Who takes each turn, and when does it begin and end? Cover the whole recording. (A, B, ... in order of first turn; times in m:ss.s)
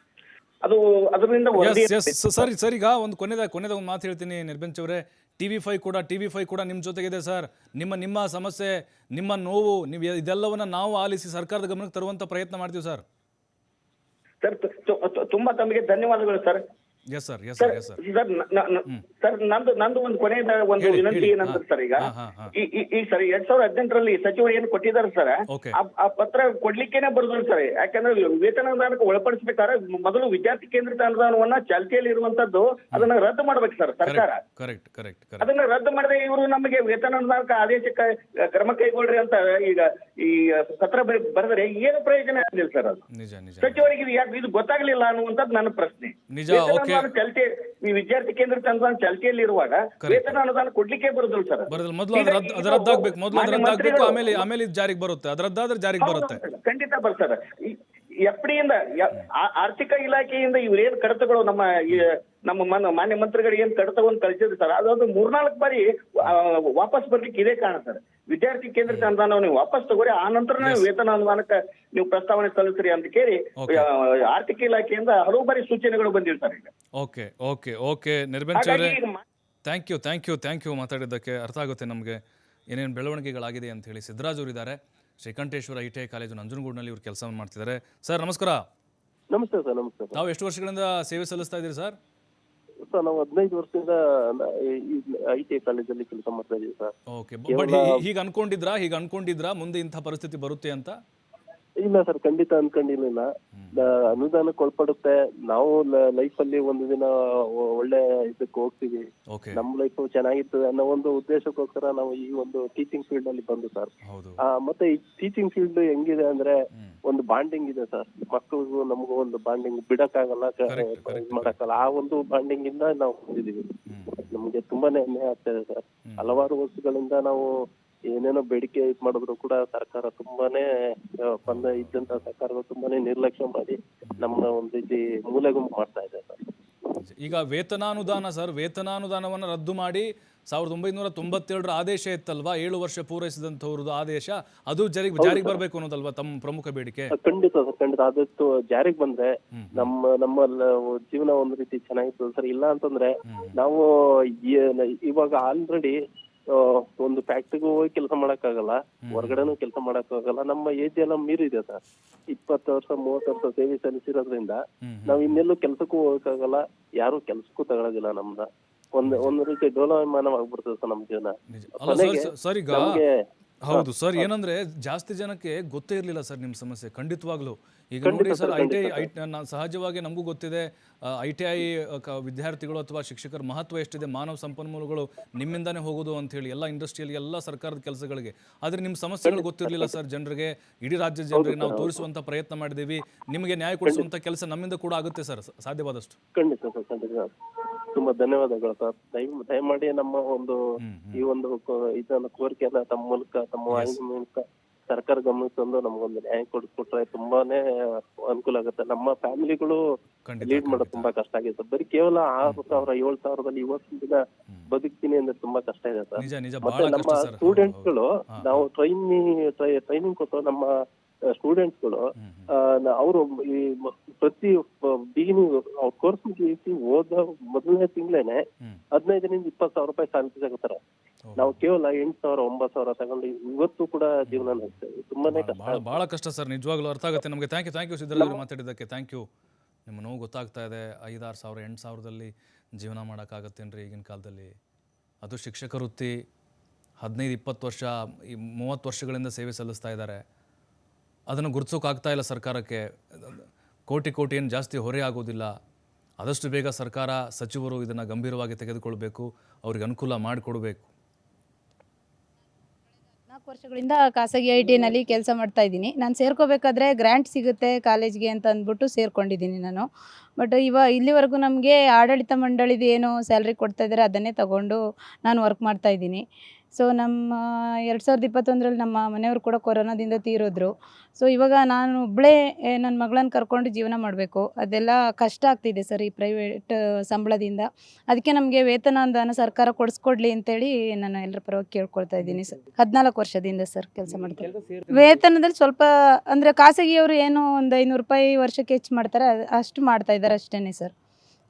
0:00.6-0:02.4 A
0:01.6-0:13.0 B
0:14.4-0:16.6 A
0:17.1-0:18.0 B
0:17.6-0:34.4 A
0:20.8-0:22.5 B
0:25.5-0:25.8 B
0:34.0-0:35.5 B
0:35.4-0:43.0 A
0:43.1-0:43.9 B
0:43.6-0:54.4 A
0:46.3-0:47.1 B
0:50.0-0:50.4 B
0:51.7-0:56.4 B
0:56.0-1:16.7 A
1:10.6-1:10.9 B
1:13.6-1:13.9 B
1:17.0-1:19.0 B
1:18.6-1:19.2 A
1:19.6-1:28.6 B
1:29.3-1:30.2 C
1:30.1-1:32.0 B
1:32.9-1:36.9 C
1:37.1-1:41.0 B
1:37.5-1:37.9 C
1:41.8-1:53.9 C
1:43.5-1:44.2 B
1:49.3-1:49.6 B
1:54.0-1:54.4 B
1:54.4-1:56.6 C
1:57.1-2:07.5 C
2:00.7-2:01.6 B
2:03.9-2:04.2 B
2:06.1-2:06.4 B
2:08.1-2:16.5 C
2:11.5-2:12.3 B
2:17.0-2:27.1 B
2:25.2-2:25.6 C
2:27.1-2:36.0 C
2:29.5-2:29.9 B
2:33.2-2:33.5 B
2:36.5-2:41.8 C
2:39.1-2:39.5 B
2:42.3-2:54.3 C
2:44.8-2:45.4 B
2:49.0-2:49.4 B
2:51.5-2:53.0 B
2:53.7-3:16.2 B
2:58.0-2:59.1 C
3:09.2-3:09.9 C
3:11.3-3:12.0 C
3:16.4-3:17.4 C
3:17.9-3:20.6 C
3:20.8-3:21.2 B
3:21.2-3:29.8 C
3:23.7-3:24.0 B
3:30.3-3:31.1 B
3:30.4-3:48.4 C
3:32.4-3:32.8 B
3:36.2-3:38.7 B
3:42.2-3:42.5 B
3:49.0-3:50.8 C
3:51.3-3:51.6 B
3:51.4-3:55.9 C
3:54.3-3:54.7 B
3:55.3-3:59.3 B
3:58.2-3:58.4 C
3:59.9-4:04.6 B
4:05.2-4:06.1 B
4:07.0-4:10.2 B
4:11.3-4:15.5 B
4:16.2-4:20.9 B
4:23.3-4:29.9 D
4:30.4-4:36.2 D
4:36.8-5:00.9 D